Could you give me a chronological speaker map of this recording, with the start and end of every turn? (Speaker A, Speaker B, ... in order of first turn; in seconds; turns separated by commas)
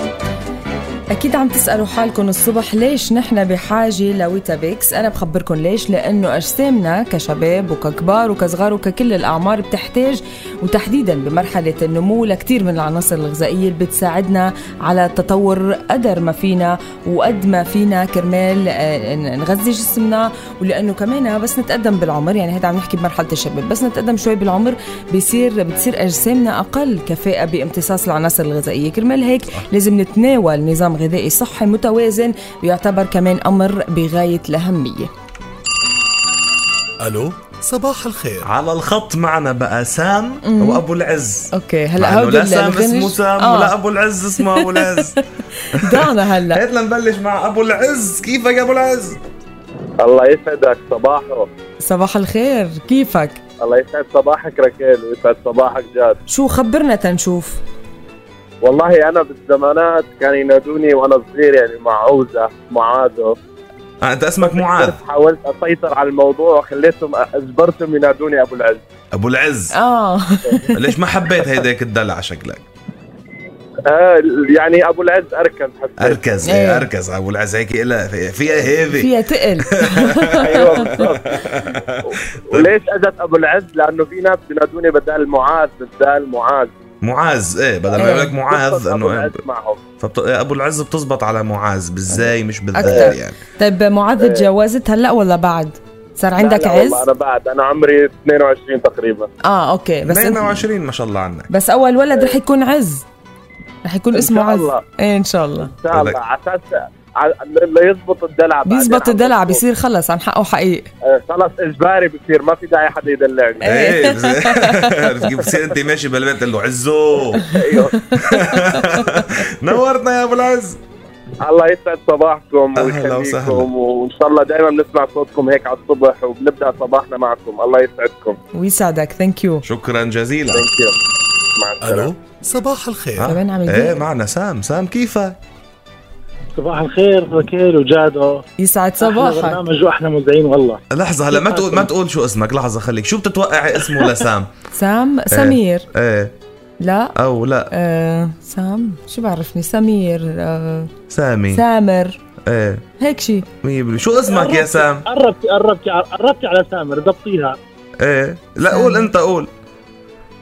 Speaker A: 1.1-35.1, Speaker B: 37.0-38.5, Speaker C: 38.4-45.2, Speaker A: 40.4-40.8, Speaker A: 41.5-43.7, Speaker A: 44.4-46.6, Speaker C: 45.7-49.2, Speaker D: 50.0-51.5, Speaker A: 51.8-53.4, Speaker D: 53.6-56.2, Speaker A: 56.3-57.6, Speaker D: 58.6-63.4, Speaker C: 64.0-65.0, Speaker D: 64.4-68.8, Speaker C: 69.1-69.8, Speaker A: 69.7-70.8, Speaker C: 70.7-72.6, Speaker D: 73.9-76.4, Speaker C: 76.0-79.1, Speaker A: 76.4-76.9, Speaker A: 78.8-81.0, Speaker C: 79.9-82.0, Speaker D: 80.4-86.7, Speaker C: 87.0-89.3, Speaker D: 87.9-89.8, Speaker A: 88.0-88.3, Speaker C: 90.0-93.4, Speaker A: 92.7-97.0, Speaker D: 92.8-93.2, Speaker D: 94.2-94.4, Speaker D: 96.4-99.3, Speaker A: 99.4-100.7, Speaker C: 100.0-101.5, Speaker A: 101.5-103.0, Speaker A: 103.8-105.7, Speaker D: 104.1-104.8, Speaker D: 105.6-109.6, Speaker C: 105.9-106.2, Speaker A: 108.7-110.9, Speaker D: 111.0-113.7, Speaker A: 113.6-115.5, Speaker C: 113.6-117.5, Speaker D: 117.3-118.0, Speaker A: 118.1-119.2, Speaker C: 118.1-120.8, Speaker D: 121.4-128.4, Speaker C: 122.7-123.7, Speaker A: 128.5-129.6, Speaker C: 129.6-130.6, Speaker D: 130.5-130.9, Speaker D: 131.6-132.1, Speaker B: 131.8-133.2, Speaker C: 133.2-135.4, Speaker A: 133.2-134.0, Speaker E: 136.5-138.4, Speaker A: 138.6-139.6, Speaker E: 139.0-141.9, Speaker C: 140.9-144.5, Speaker A: 144.7-145.8, Speaker C: 145.3-146.3, Speaker A: 146.8-147.2, Speaker C: 147.2-147.7, Speaker A: 147.7-150.9, Speaker C: 151.1-151.6, Speaker A: 151.5-152.2, Speaker C: 152.4-152.8, Speaker A: 153.0-153.4, Speaker C: 153.6-155.0, Speaker E: 154.2-157.6, Speaker C: 158.0-159.5, Speaker A: 158.7-159.1